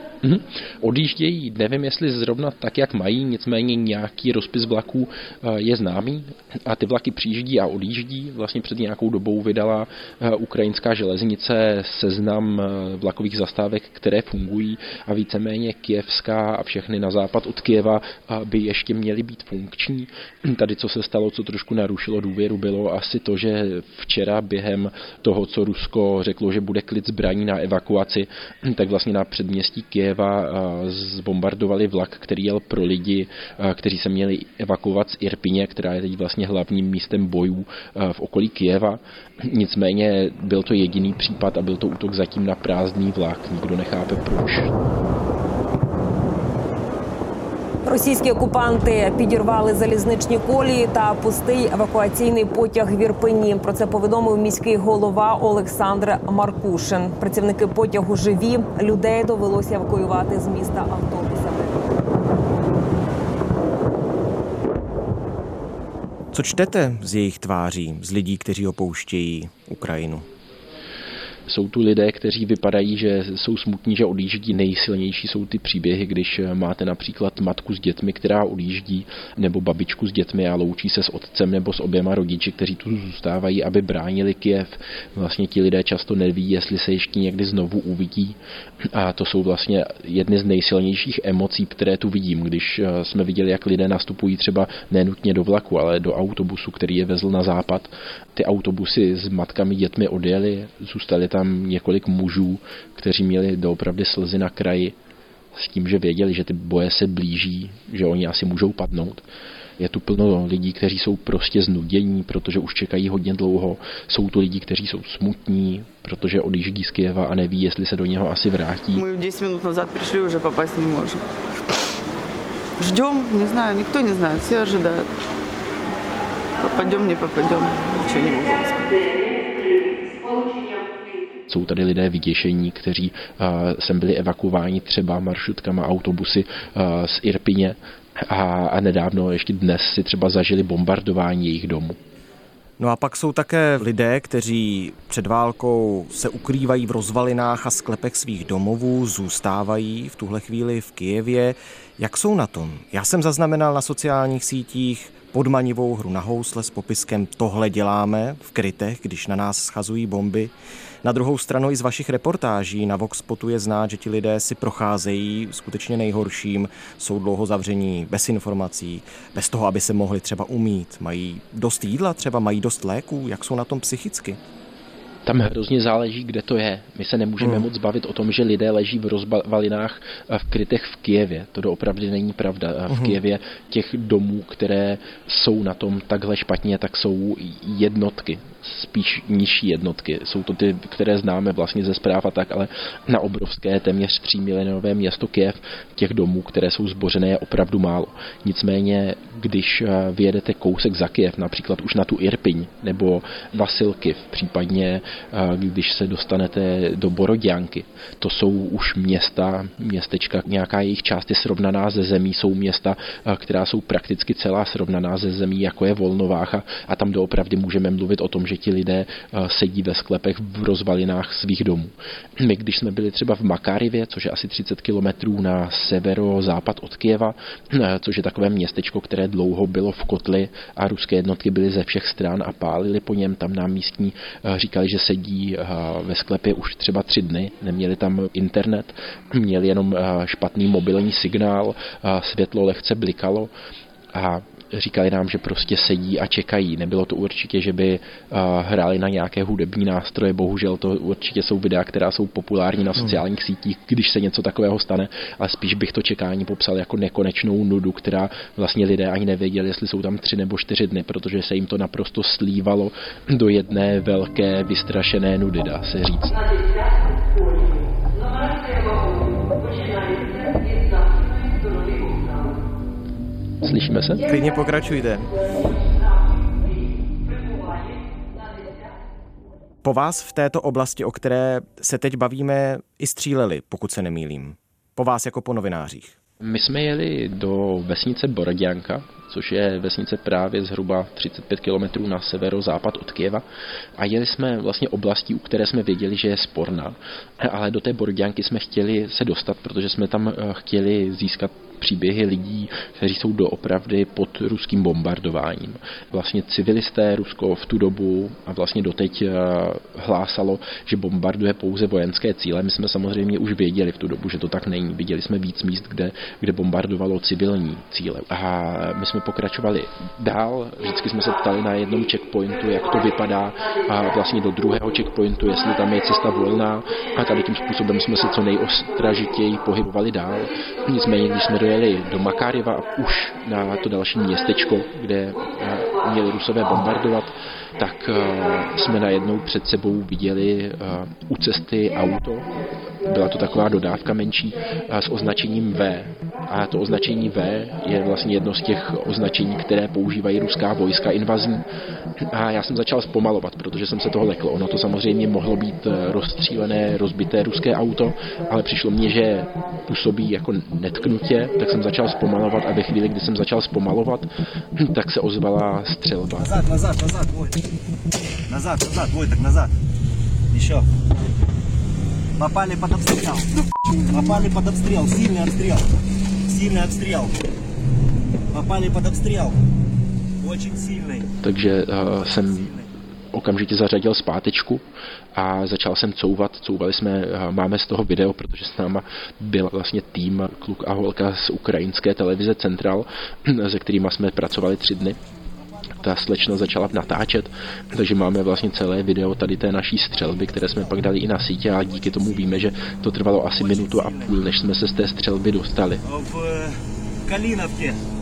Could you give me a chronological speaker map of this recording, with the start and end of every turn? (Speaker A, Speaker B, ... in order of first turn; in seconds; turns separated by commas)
Speaker A: 0.2-44.7, Speaker B: 47.8-61.9, Speaker C: 66.3-70.2, Speaker A: 71.5-105.0, Speaker A: 105.5-109.3, Speaker A: 109.8-119.0, Speaker D: 118.9-121.3, Speaker D: 122.8-125.1, Speaker D: 126.6-129.0, Speaker A: 131.5-142.0, Speaker C: 142.8-160.5, Speaker C: 161.0-174.4, Speaker A: 175.2-243.5, Speaker C: 182.9-183.2, Speaker A: 244.1-266.4, Speaker A: 273.6-274.2, Speaker C: 274.2-275.3, Speaker C: 279.8-286.2, Speaker A: 286.4-293.4, Speaker A: 294.0-342.5, Speaker A: 343.0-351.7, Speaker A: 352.2-366.6, Speaker E: 366.4-367.6, Speaker E: 368.5-369.7, Speaker E: 370.5-370.9, Speaker E: 372.4-373.5, Speaker E: 374.1-375.9, Speaker E: 376.5-377.3, Speaker E: 378.5-379.6, Speaker E: 380.4-381.3, Speaker A: 381.4-382.7, Speaker E: 382.3-382.9, Speaker A: 383.3-395.2, Speaker A: 396.0-406.0, Speaker E: 403.6-404.4, Speaker E: 406.0-408.0